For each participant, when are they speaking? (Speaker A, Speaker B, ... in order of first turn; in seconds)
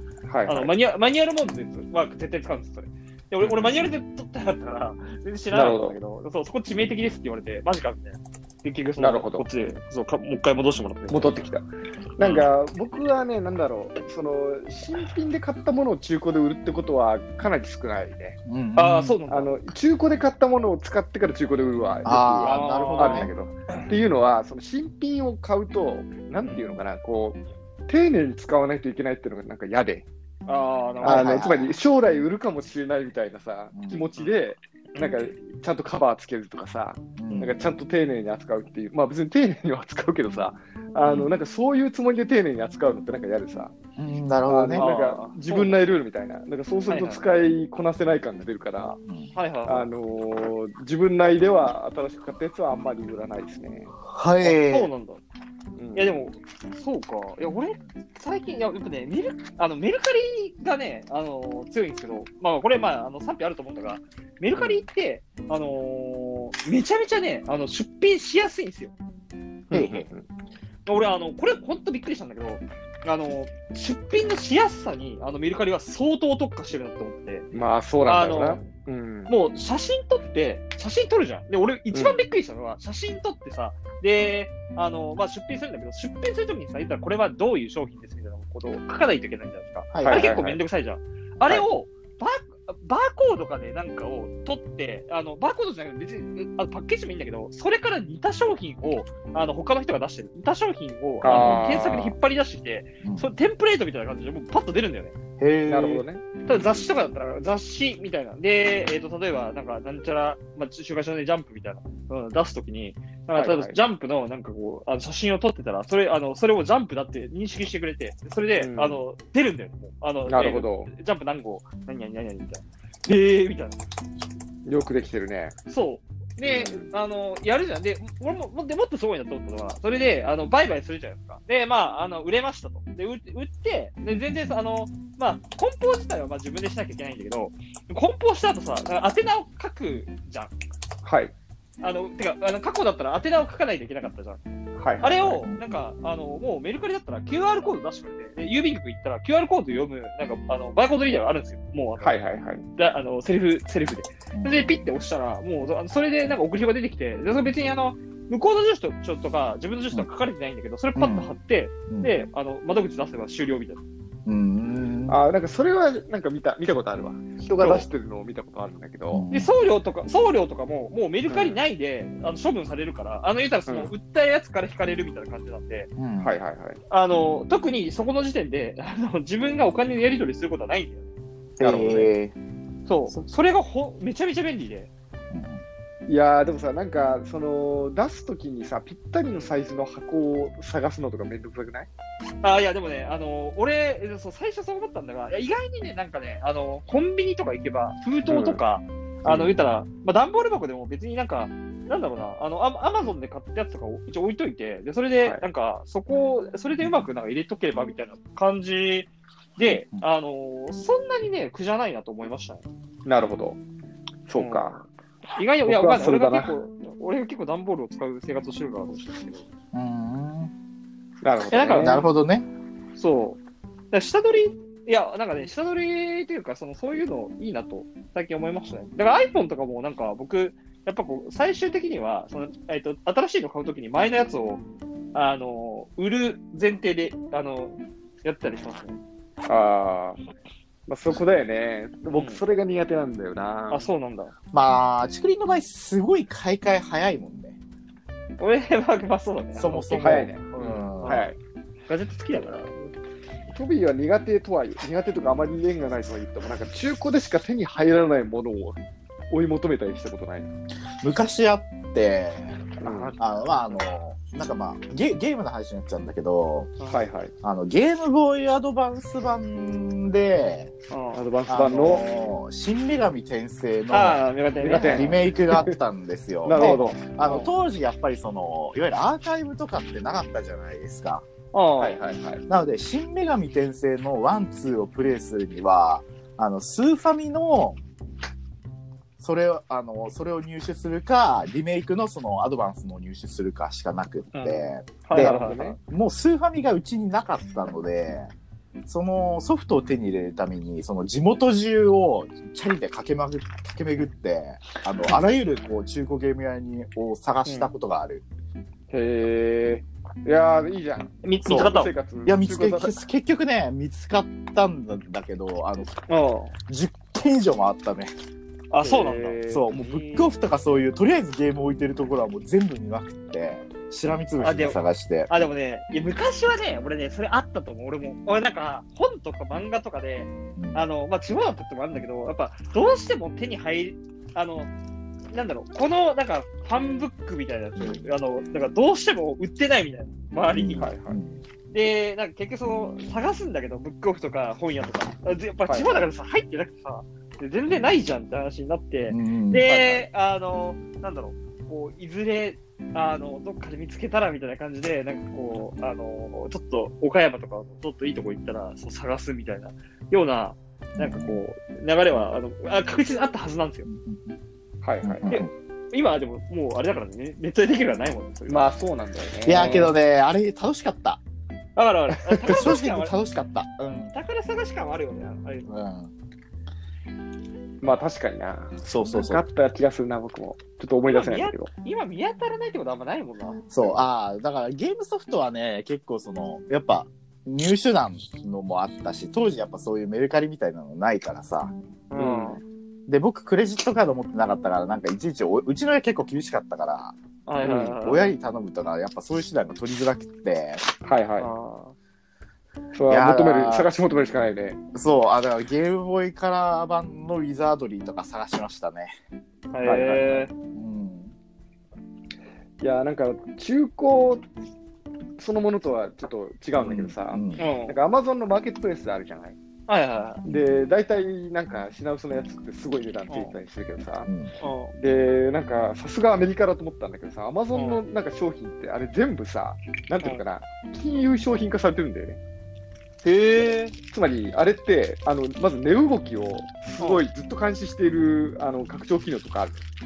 Speaker A: 0.2-0.7, 3.4-3.8, 5.5-6.0, 9.0-9.4, 11.1-11.7, 12.2-18.4, 19.3-30.1, 31.0-43.7, 44.5-49.0, 49.7-53.9, 55.8-56.1, 64.5-64.8, 69.7-70.2, 77.5-79.3, 81.9-82.2, 90.0-90.6, 101.2-102.2, 105.7-106.4, 113.3-113.8, 118.6-119.0, 120.3-120.9, 124.7-125.6, 126.4-126.9, 141.0-141.3, 144.8-145.3, 152.0-152.6, 165.1-169.2, 171.3-171.6, 173.7-173.9, 176.2-176.8, 181.6-182.1, 186.1-191.9, 198.3-198.6, 199.2-199.5, 213.1-213.6, 214.3-214.8, 215.6-216.5, 221.2-222.0, 239.4-240.2, 240.9-243.9, 249.9-251.4, 253.5-258.8, 259.3-260.5, 262.8-263.1, 266.9-267.3, 271.1-272.0, 274.6-275.8, 276.4-277.5, 281.8-282.4, 294.4-295.8, 308.9-312.9, 318.8-319.7, 340.8-341.2, 345.6-346.0, 349.6-350.1, 364.8-365.4, 368.5-369.9, 372.3-372.8, 377.8-381.7, 392.1-392.6, 397.6-398.0, 401.0-401.5, 402.9-404.8, 409.8-410.4, 412.8-414.4, 415.4-419.6, 420.5-424.3, 425.0-432.4, 434.1-439.8
Speaker B: 0.5-11.4, 12.2-12.5, 18.8-19.5, 22.4-23.9, 26.4-26.8, 30.5-31.5, 35.0-35.3, 44.7-45.8, 46.9-47.2, 49.3-49.9, 54.4-55.2, 56.0-68.9, 70.8-77.5, 78.0-78.6, 79.3-105.1, 106.5-123.8, 125.7-140.5, 141.8-144.4, 145.0-152.2, 152.8-163.8, 167.5-167.8, 169.3-175.9, 176.9-181.1, 182.9-184.9, 192.4-212.6, 214.3-219.4, 221.5-222.1, 222.9-223.4, 223.9-234.6, 235.1-239.0, 242.1-242.4, 243.7-244.3, 248.4-251.3, 251.9-252.9, 262.8-263.5, 270.9-271.2, 273.9-275.2, 276.6-277.4, 281.5-282.0, 295.1-295.8, 307.4-307.7, 311.2-311.9, 316.1-316.5, 318.7-320.3, 324.4-334.7, 335.3-340.9, 341.7-363.9, 365.3-368.7, 369.5-369.9, 371.8-373.2, 374.1-375.7, 381.1-383.6, 392.1-392.6, 397.5-398.3, 401.4-401.9, 409.7-410.5, 417.6-418.0, 419.9-420.4, 423.3-423.5, 424.6-424.9, 427.7-428.0, 433.2-433.9, 437.0-437.2
Speaker C: 18.4-19.2, 22.0-23.3, 31.0-31.8, 33.7-34.0, 37.2-37.6, 41.0-41.3, 44.0-44.9, 49.0-49.3, 54.0-54.9, 69.7-70.1, 89.9-90.3, 101.2-101.8, 103.0-103.3, 105.4-106.0, 145.2-145.6, 154.3-154.8, 160.9-161.3, 164.2-165.2, 169.1-169.5, 176.0-176.3, 181.6-182.3, 185.3-185.6, 219.7-220.5, 221.6-222.5, 244.5-247.6, 249.6-251.2, 261.0-266.7, 267.4-270.7, 271.5-281.2, 282.5-287.8, 289.2-298.3, 298.9-308.2, 311.4-316.0, 316.7-318.1, 319.5-325.3, 330.6-330.8, 337.8-338.0, 340.5-341.4, 349.1-349.7, 360.9-361.4, 363.9-364.4, 365.0-365.5, 369.4-371.2, 372.4-374.1, 375.6-376.1, 378.8-379.4, 383.7-391.7, 393.1-397.1, 397.9-400.8, 403.1-403.9, 404.9-409.1, 410.5-411.3, 416.8-417.6, 424.2-424.5